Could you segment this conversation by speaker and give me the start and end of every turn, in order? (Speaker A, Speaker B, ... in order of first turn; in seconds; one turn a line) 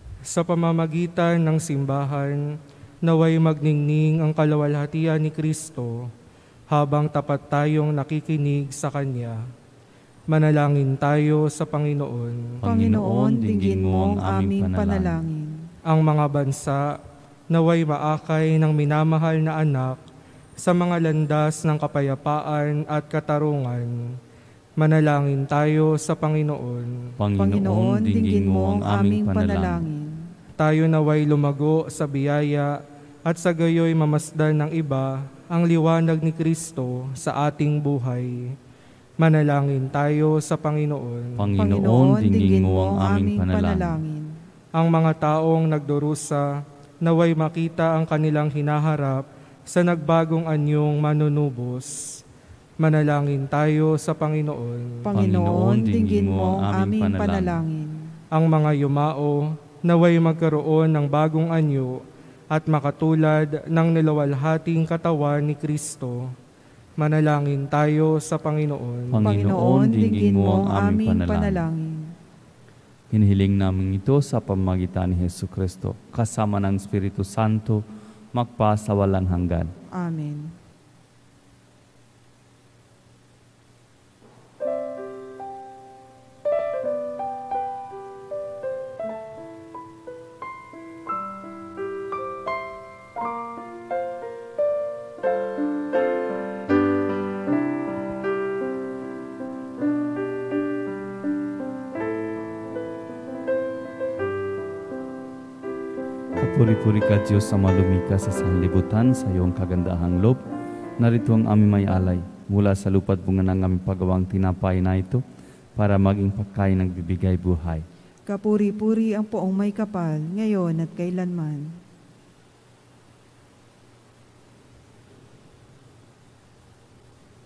Speaker A: 0.3-2.4
Speaker A: 3.0-6.1
Speaker A: 6.7-9.4
Speaker A: 10.3-12.6
Speaker B: 12.6-15.2
Speaker C: 12.6-15.7
Speaker A: 15.9-16.8
Speaker A: 17.5-20.0
Speaker A: 20.6-24.1
Speaker A: 24.8-27.0
Speaker B: 27.2-29.8
Speaker C: 27.4-30.3
Speaker A: 30.6-38.5
Speaker A: 39.2-41.4
Speaker B: 41.4-44.0
Speaker C: 41.6-44.3
Speaker A: 44.8-46.4
Speaker A: 47.0-52.2
Speaker A: 52.8-55.0
Speaker C: 55.0-58.1
Speaker B: 55.1-57.6
Speaker A: 58.3-66.3
Speaker A: 67.0-69.2
Speaker B: 69.1-71.6
Speaker C: 69.2-72.1
Speaker B: 73.1-77.8
Speaker B: 78.3-79.7
Speaker C: 80.0-80.5
Speaker B: 106.4-110.4
Speaker B: 111.0-115.2
Speaker B: 115.8-117.8
Speaker C: 118.3-121.7